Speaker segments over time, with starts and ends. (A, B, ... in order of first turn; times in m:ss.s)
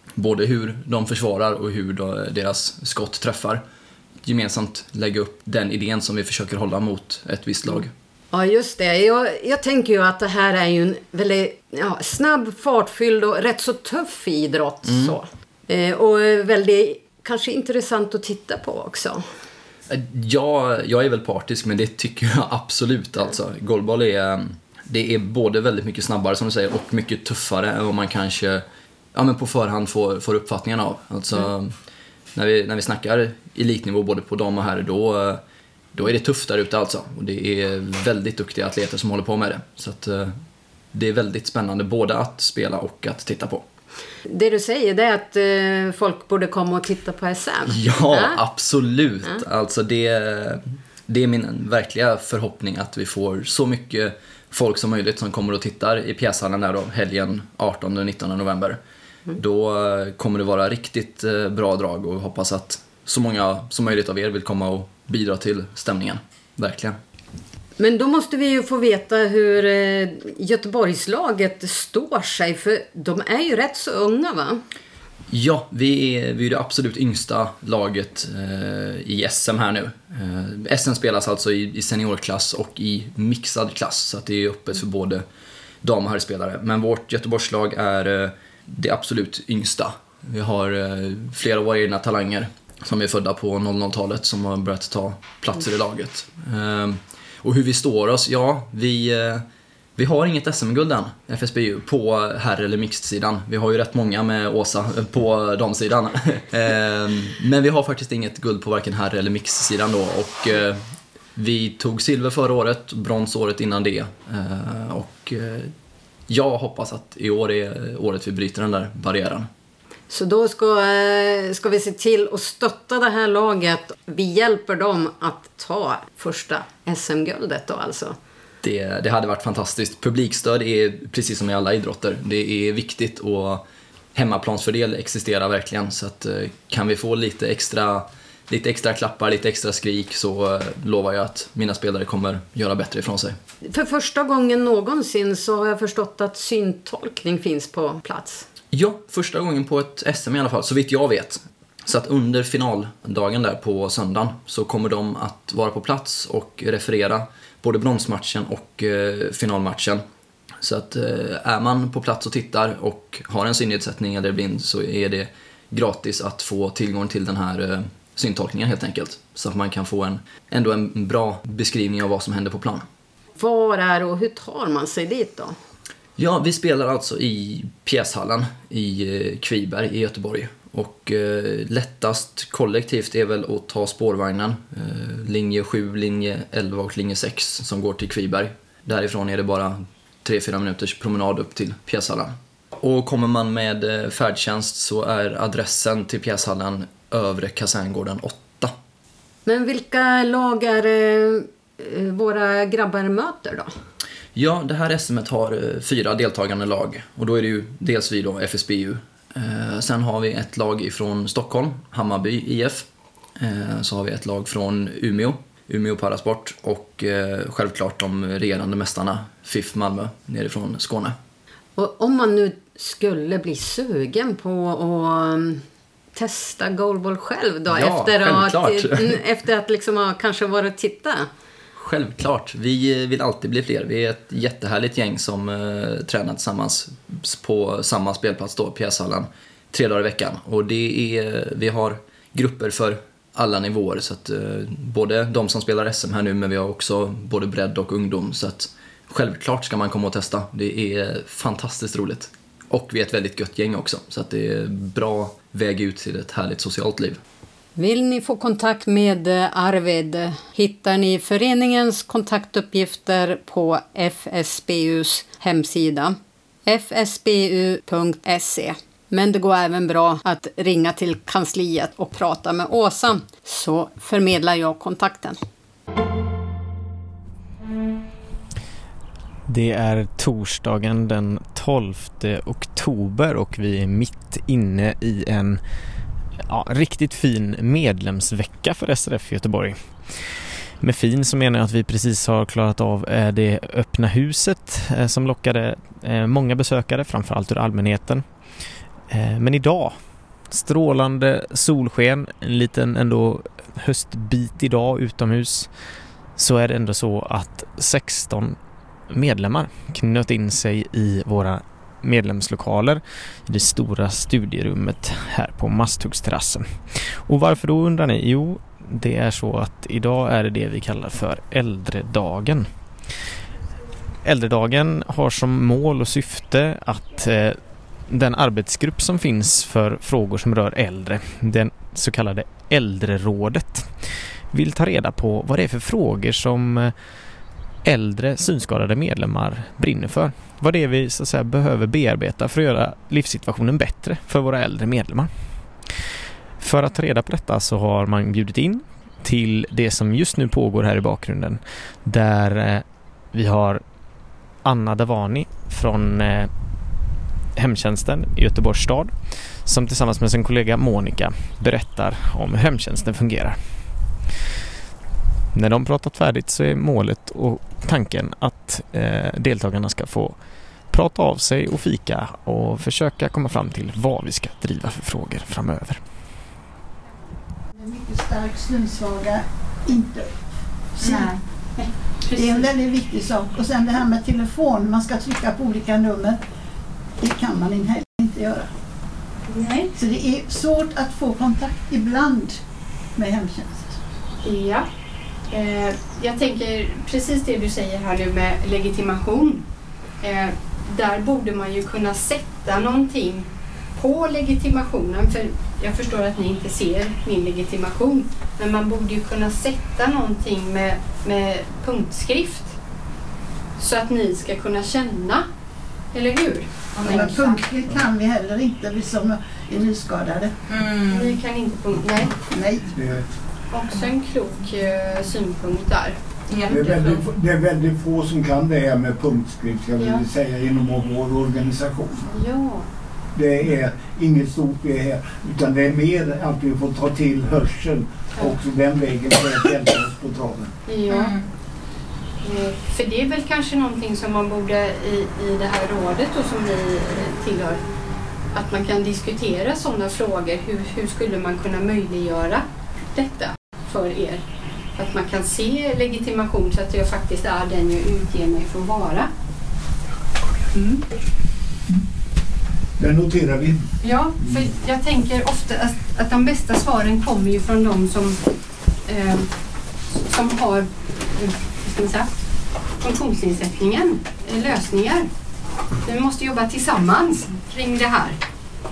0:00.2-0:03.6 A
0:04.2-0:07.9 A
0:08.3-0:19.2 B
0:14.8-0:15.2 A
0:19.9-0:31.8 A
0:32.4-0:35.4 A
0:36.0-0:40.4 A
0:40.9-0:43.6 A
0:44.3-0:48.4 B
0:47.7-0:58.8 A
0:59.3-1:07.0 A
1:07.8-1:14.6 B
1:15.3-1:25.2 A
1:25.8-1:39.4 A
1:40.0-1:50.8 A
1:51.4-1:55.7 A
1:56.3-1:59.5 A
2:00.1-2:08.2 B
2:08.6-2:13.6 A
2:14.2-2:23.4 A
2:23.7-2:28.4 B
2:28.7-2:40.0 A
2:40.6-2:52.9 A
2:53.4-2:55.6 B
2:56.2-3:18.7 A
3:19.5-3:23.7 B
3:24.4-3:32.9 A
3:33.4-3:41.2 A
3:41.8-3:45.6 B
3:46.2-3:51.3 B
3:47.7-3:49.2 A
3:51.8-4:17.2 A
4:17.8-4:35.4 B
4:39.5-4:45.6 C
4:46.5-4:58.3 C
4:59.1-5:05.7 C
5:06.4-5:08.6 C
5:09.1-5:22.7 C
5:24.2-5:37.0 C
5:37.8-5:45.3 C
5:46.6-5:53.8 C
5:54.6-5:56.5 C
5:57.6-6:03.6 C
6:05.5-6:10.4 C
6:10.9-6:16.0 C
6:17.8-6:21.4 D
6:21.0-6:22.7 E
6:22.3-6:26.4 D
6:27.2-6:28.7 D
6:29.5-6:30.0 E
6:30.0-6:32.6 D
6:33.2-6:34.0 D
6:34.4-6:34.9 E
6:35.5-6:39.6 E
6:40.2-6:52.8 E
6:53.8-6:55.5 E
6:56.1-6:57.7 E
6:56.9-7:00.6 D
7:01.0-7:02.4 E
7:02.4-7:02.9 D
7:02.9-7:03.2 F
7:03.7-7:06.2 E
7:06.7-7:12.3 F
7:10.0-7:10.2 E
7:12.3-7:12.9 E
7:13.4-7:20.7 F
7:20.9-7:21.4 E
7:22.4-7:27.8 E
7:28.5-7:34.4 E
7:35.0-7:39.3 E
7:40.7-7:41.0 E
7:43.0-7:44.8 F
7:44.0-7:48.4 E
7:49.1-7:49.5 E
7:50.1-7:52.4 E
7:53.0-7:55.3 E
7:56.0-7:58.4 E